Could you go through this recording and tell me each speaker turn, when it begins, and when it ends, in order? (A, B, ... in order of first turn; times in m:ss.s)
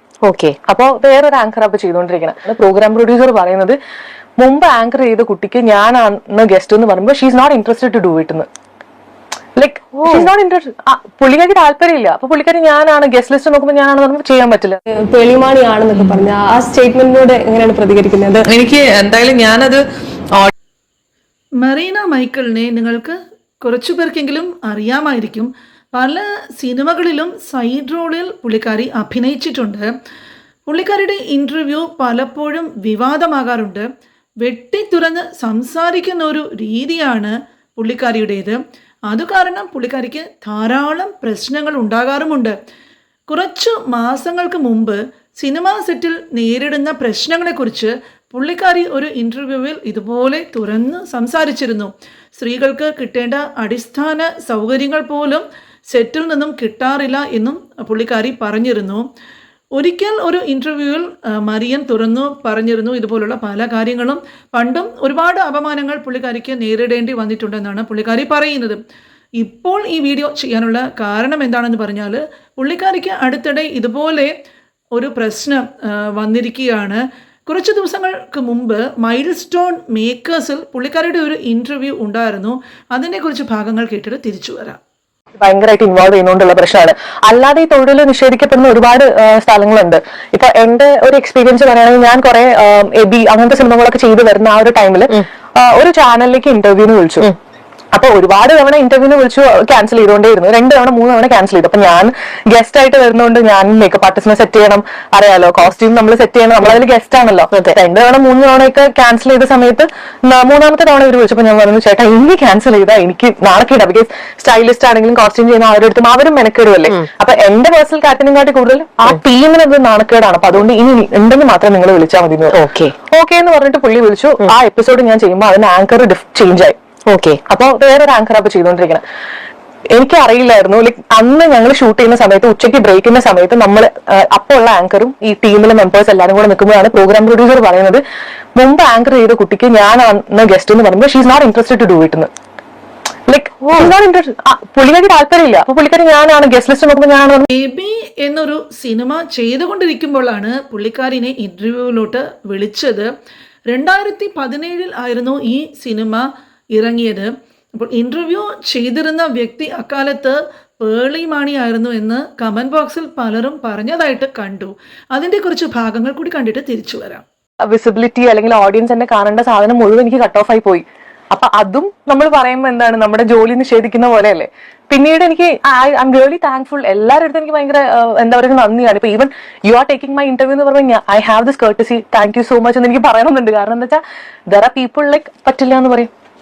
0:00.2-0:00.6 A
0:00.7-0:03.8 B
0:04.4-0:08.5 B
0:09.6-0:14.8 B
0:10.0-0:10.3 A
0:15.0-0:18.5 C
0:16.0-0:16.2 D
0:18.4-0:20.5 D
0:21.6-0:29.9 E
0:30.7-0:33.9 E
0:34.4-0:42.6 E
0:43.3-0:59.0 E
0:59.8-1:08.8 E
1:09.4-1:14.3 E
1:14.9-1:24.8 E
1:25.4-1:37.3 B
1:37.9-2:06.8 B
1:47.5-1:47.8 A
2:02.5-2:02.9 A
2:07.1-2:07.4 A
2:07.5-2:09.0 B
2:09.9-2:18.0 B
2:18.6-2:22.3 B
2:23.3-2:27.5 B
2:23.6-2:23.9 A
2:27.5-2:33.1 E
2:33.7-2:47.2 E
2:47.7-3:06.1 B